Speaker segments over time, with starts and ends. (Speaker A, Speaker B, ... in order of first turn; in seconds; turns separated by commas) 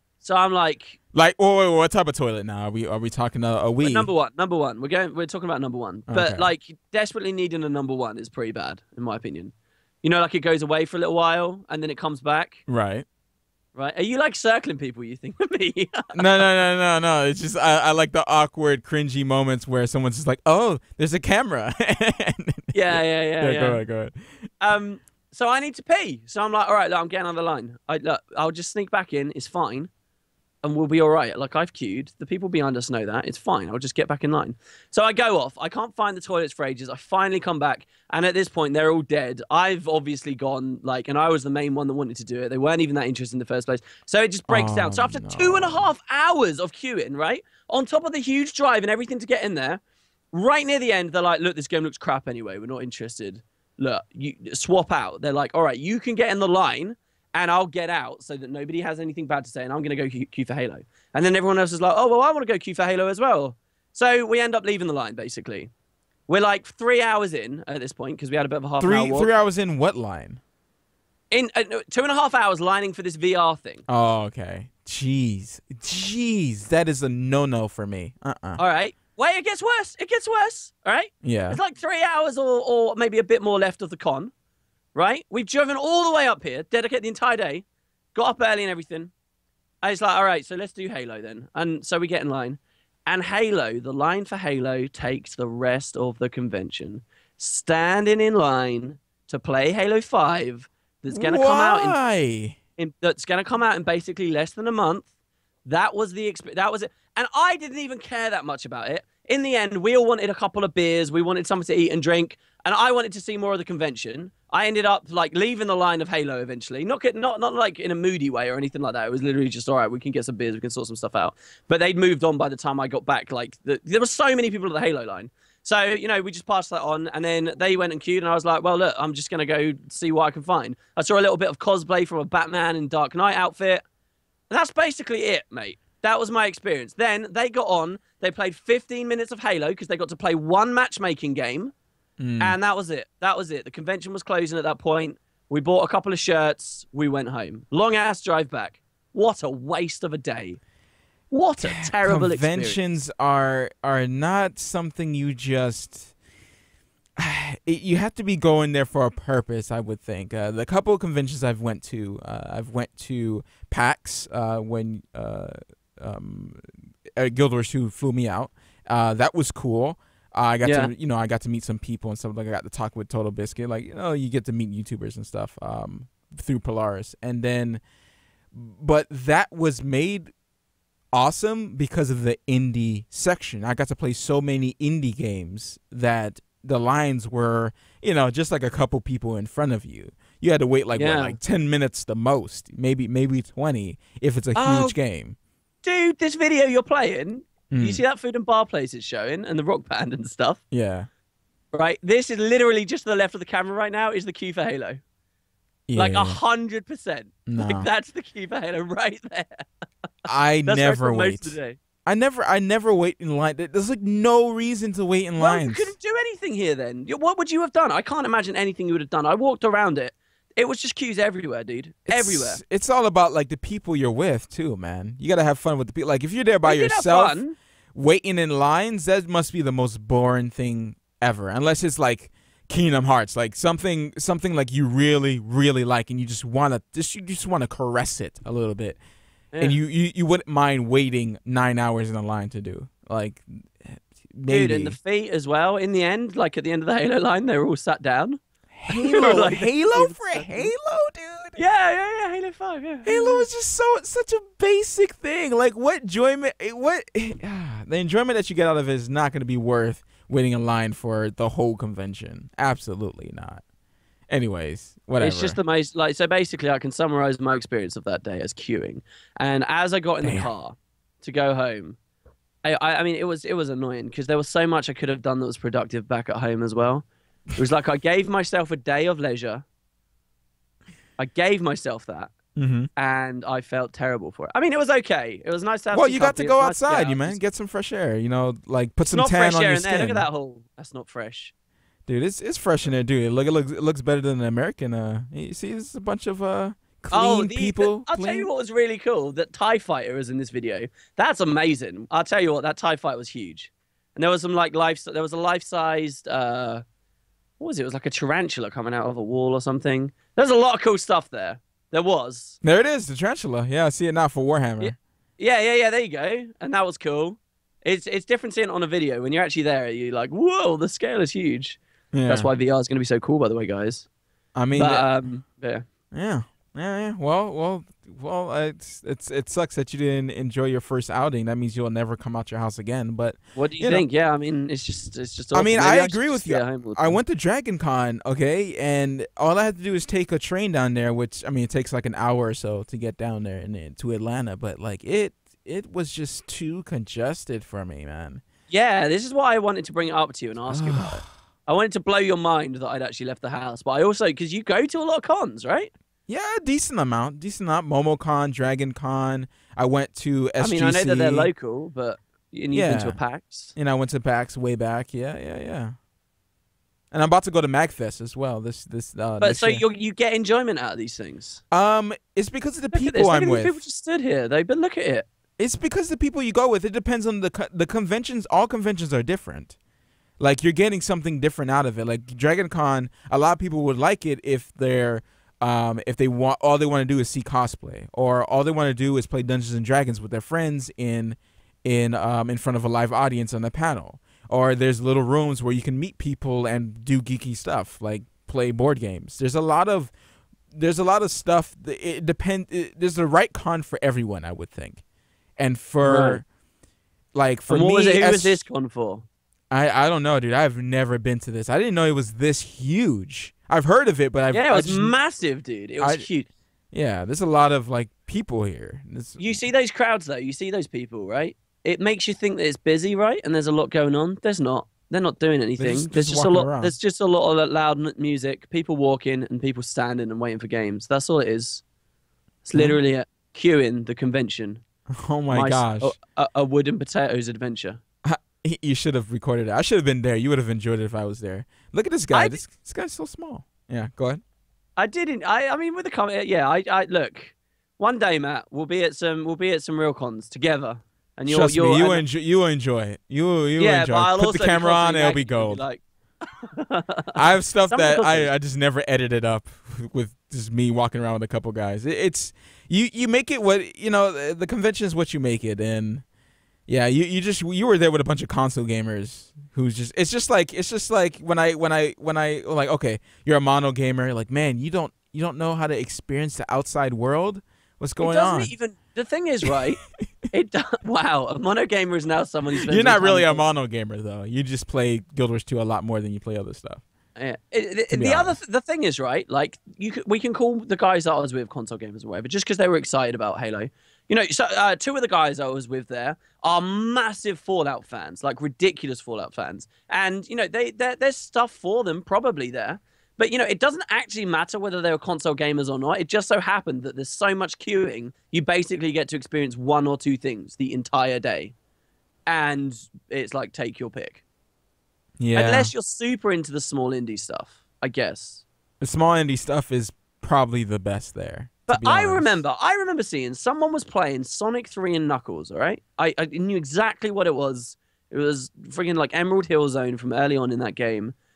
Speaker A: 0.2-1.0, Speaker B: 1.1-4.1, Speaker A: 3.8-12.6, Speaker B: 6.1-6.5, Speaker B: 12.7-13.1, Speaker A: 13.7-16.4, Speaker B: 16.1-24.5, Speaker A: 22.7-23.8, Speaker A: 24.6-29.9, Speaker A: 30.6-49.8, Speaker B: 44.5-45.9, Speaker A: 50.3-65.7, Speaker A: 66.3-69.3, Speaker B: 68.8-70.4, Speaker A: 71.3-73.8, Speaker B: 73.9-78.6, Speaker A: 78.6-84.3, Speaker B: 81.2-81.6, Speaker A: 84.9-87.6, Speaker A: 88.1-89.1, Speaker A: 89.8-102.0, Speaker B: 101.1-102.6, Speaker A: 102.8-105.1, Speaker A: 105.6-133.8, Speaker A: 134.5-141.7, Speaker B: 142.2-142.6, Speaker A: 142.4-150.6, Speaker A: 151.3-152.8, Speaker B: 151.6-156.1, Speaker B: 157.2-177.8, Speaker A: 170.6-170.9, Speaker B: 178.5-180.3, Speaker B: 181.1-195.3, Speaker A: 190.9-191.4, Speaker A: 194.6-194.9, Speaker A: 195.8-200.6, Speaker B: 197.7-198.0, Speaker B: 200.7-201.1, Speaker A: 201.7-205.0, Speaker B: 205.9-206.4, Speaker A: 205.9-209.7, Speaker B: 207.4-207.9, Speaker B: 210.3-215.9, Speaker A: 210.7-211.8, Speaker A: 215.4-222.6, Speaker B: 222.1-227.4, Speaker A: 226.6-227.6, Speaker B: 227.9-239.0, Speaker A: 239.5-239.8, Speaker B: 239.6-244.9, Speaker A: 244.5-250.7, Speaker B: 248.8-251.6, Speaker A: 251.6-253.5, Speaker B: 253.1-263.6, Speaker B: 264.3-265.6, Speaker A: 265.2-272.0, Speaker B: 270.2-270.5, Speaker A: 272.6-279.6, Speaker A: 281.2-282.3, Speaker B: 282.6-282.9, Speaker A: 282.9-287.4, Speaker B: 285.9-290.3, Speaker A: 289.1-291.5, Speaker B: 292.1-298.5, Speaker A: 297.1-306.8, Speaker A: 307.6-312.6, Speaker B: 312.6-314.9, Speaker A: 314.8-324.1, Speaker B: 322.1-322.5, Speaker B: 324.5-325.3, Speaker A: 324.7-325.8, Speaker B: 326.1-334.0, Speaker A: 333.6-337.2, Speaker B: 335.5-348.4, Speaker A: 348.7-355.9, Speaker B: 350.7-351.3, Speaker B: 356.3-361.5, Speaker A: 360.6-363.7, Speaker B: 362.7-363.2, Speaker B: 363.8-365.9, Speaker B: 367.1-369.8, Speaker A: 369.4-371.6, Speaker B: 371.7-373.8, Speaker A: 372.9-375.3, Speaker B: 375.6-379.7, Speaker B: 380.4-400.1, Speaker B: 400.7-405.0, Speaker B: 405.6-406.4, Speaker A: 406.0-406.4, Speaker B: 407.3-408.6, Speaker A: 407.7-409.2, Speaker B: 409.7-415.1, Speaker A: 414.5-416.5, Speaker B: 416.0-416.2, Speaker B: 416.9-419.6, Speaker A: 419.4-431.8, Speaker B: 425.8-426.9, Speaker A: 432.6-434.8, Speaker B: 435.1-436.1, Speaker A: 435.5-438.0, Speaker B: 438.2-444.4, Speaker A: 442.3-442.6, Speaker A: 445.0-452.2, Speaker B: 451.5-455.8, Speaker A: 453.8-456.0, Speaker A: 456.6-458.5, Speaker B: 457.4-466.2, Speaker B: 466.9-478.7, Speaker A: 478.2-480.0, Speaker A: 480.5-483.6, Speaker B: 482.8-487.0, Speaker A: 487.4-511.7, Speaker B: 488.1-488.6, Speaker A: 512.5-514.4, Speaker B: 515.4-515.9, Speaker A: 515.5-518.6, Speaker B: 519.0-522.6, Speaker A: 521.9-531.3